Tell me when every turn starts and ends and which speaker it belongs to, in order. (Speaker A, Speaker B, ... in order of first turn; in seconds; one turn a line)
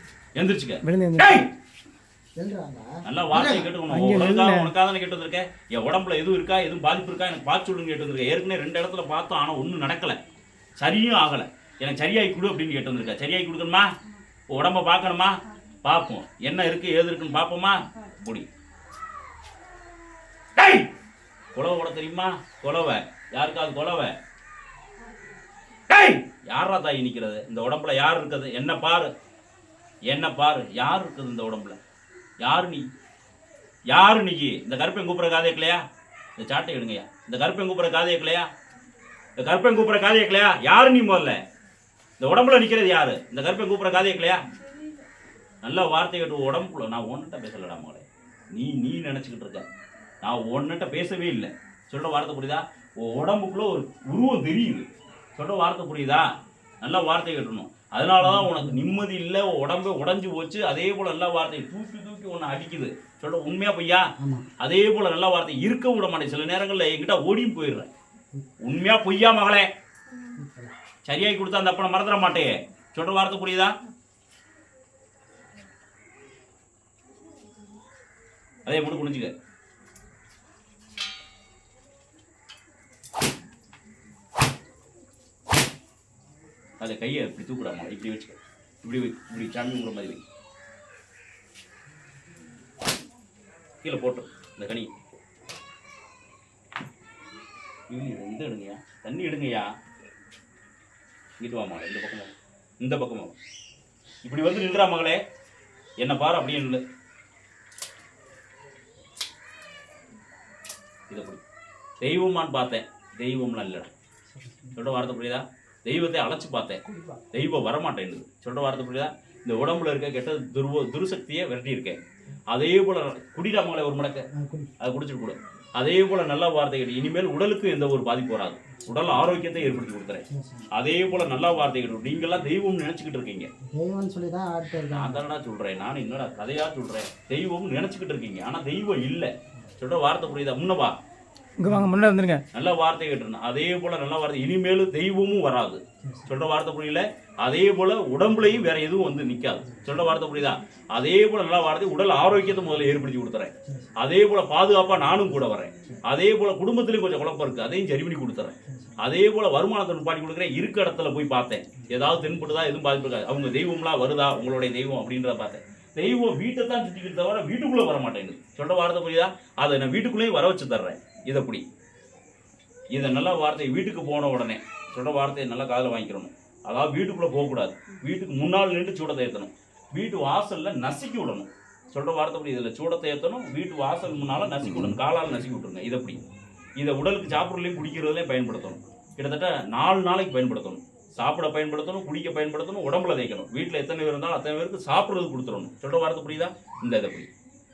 Speaker A: 0.4-1.5
Speaker B: 0.8-1.4
Speaker C: 2.4-3.7
Speaker A: 3.0-10.2
Speaker B: 3.9-4.7
Speaker A: 10.8-13.9
Speaker A: 14.5-18.5
Speaker A: 20.6-20.9
Speaker A: 21.5-24.1
Speaker A: 25.9-29.1
Speaker A: 30.1-31.8
Speaker A: 32.4-32.9
Speaker A: 33.9-35.8
Speaker A: 36.4-38.5
Speaker A: 39.4-41.4
Speaker A: 42.2-44.5
Speaker A: 45.6-49.6
Speaker A: 50.2-56.3
Speaker A: 56.8-67.9
Speaker C: 58.3-59.0
Speaker C: 64.2-64.5
Speaker A: 68.6-69.7
Speaker C: 70.4-70.7
Speaker A: 71.1-73.8
Speaker A: 78.7-79.3
Speaker A: 86.8-90.2
Speaker A: 93.8-94.9
Speaker A: 97.9-99.7
Speaker A: 101.4-103.3
Speaker A: 104.2-105.2
Speaker A: 106.0-106.8
Speaker A: 111.1-111.4
Speaker A: 112.0-113.9
Speaker C: 114.4-114.7
Speaker A: 114.7-124.3
Speaker C: 116.9-117.2
Speaker C: 124.3-124.7
Speaker A: 124.8-133.5
Speaker C: 130.3-130.7
Speaker C: 133.7-135.2
Speaker A: 134.9-141.0
Speaker B: 141.6-142.4
Speaker A: 142.5-171.7
Speaker A: 172.9-186.2
Speaker A: 186.8-197.3